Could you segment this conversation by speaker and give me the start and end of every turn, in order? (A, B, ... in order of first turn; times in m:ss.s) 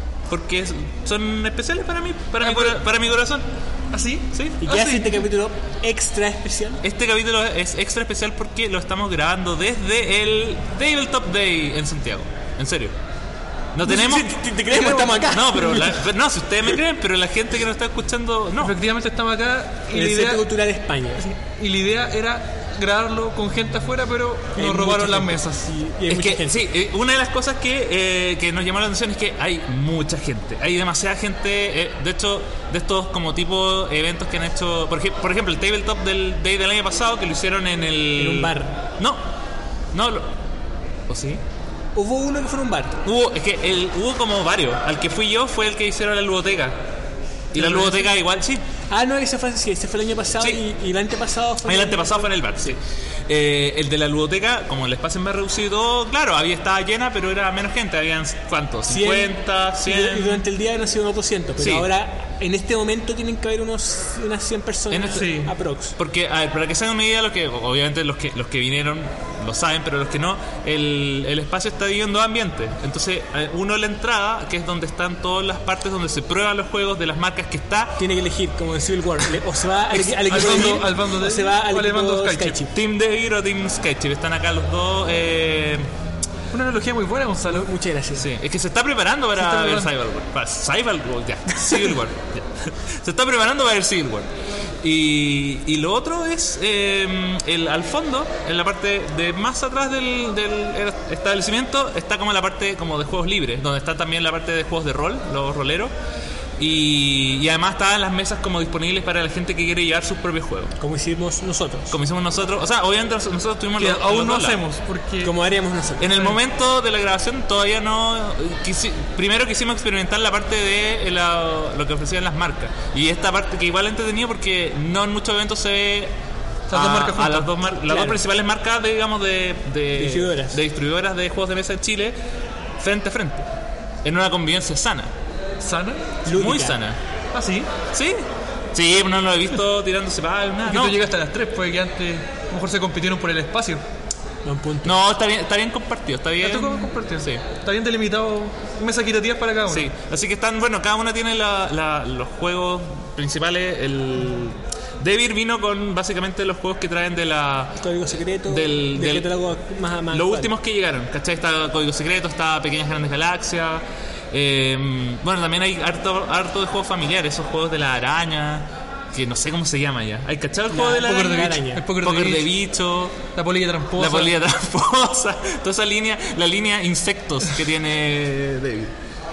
0:00.3-0:03.4 A
0:02.4-0:02.8 B
0:03.9-0:05.2 B
0:04.6-0:06.8 C
0:06.8-0:12.9 A
0:13.7-0:14.3 A
0:13.8-0:16.0 C
0:14.7-0:15.2 B
0:15.2-0:18.8 A
0:18.6-0:20.5 B
0:19.9-0:21.2 C
0:21.2-0:25.7 B
0:24.6-0:26.7 C
0:26.1-0:39.2 A
0:38.1-0:38.8 C
0:39.9-0:40.3 A
0:41.1-0:41.4 A
0:41.9-0:43.0 C
0:43.0-0:46.8 A
0:47.5-0:48.6 A
0:47.6-0:48.1 C
0:48.9-0:52.8 C
0:51.6-1:00.4 A
0:58.8-1:06.0 C
1:01.6-1:01.9 A
1:04.9-1:05.3 A
1:05.1-1:05.5 B
1:06.0-1:18.0 A
1:18.0-1:22.7 C
1:19.9-1:20.8 A
1:20.3-1:22.6 B
1:22.7-1:25.9 A
1:26.5-1:27.7 B
1:27.4-1:28.3 C
1:28.2-1:34.3 A
1:29.3-1:29.9 B
1:34.8-1:45.9 A
1:46.6-1:50.7 A
1:50.8-1:51.9 C
1:51.9-1:54.6 A
1:53.8-1:55.3 B
1:55.2-1:56.4 C
1:56.0-2:06.1 A
2:06.7-2:08.0 B
2:06.7-2:12.2 A
2:07.9-2:08.2 C
2:09.9-2:10.6 C
2:12.8-2:13.5 A
2:14.0-2:15.1 A
2:15.6-2:16.2 B
2:16.2-2:16.8 C
2:16.3-2:17.0 A
2:17.3-2:17.7 B
2:17.9-2:21.0 A
2:20.6-2:23.8 B
2:24.4-2:25.0 C
2:24.8-2:27.4 A
2:26.4-2:29.9 B
2:29.7-2:37.8 A
2:37.8-2:40.5 C
2:38.5-2:39.3 A
2:40.1-2:53.2 A
2:50.7-2:51.8 C
2:50.9-2:52.5 B
2:53.3-2:54.4 B
2:54.0-2:58.9 A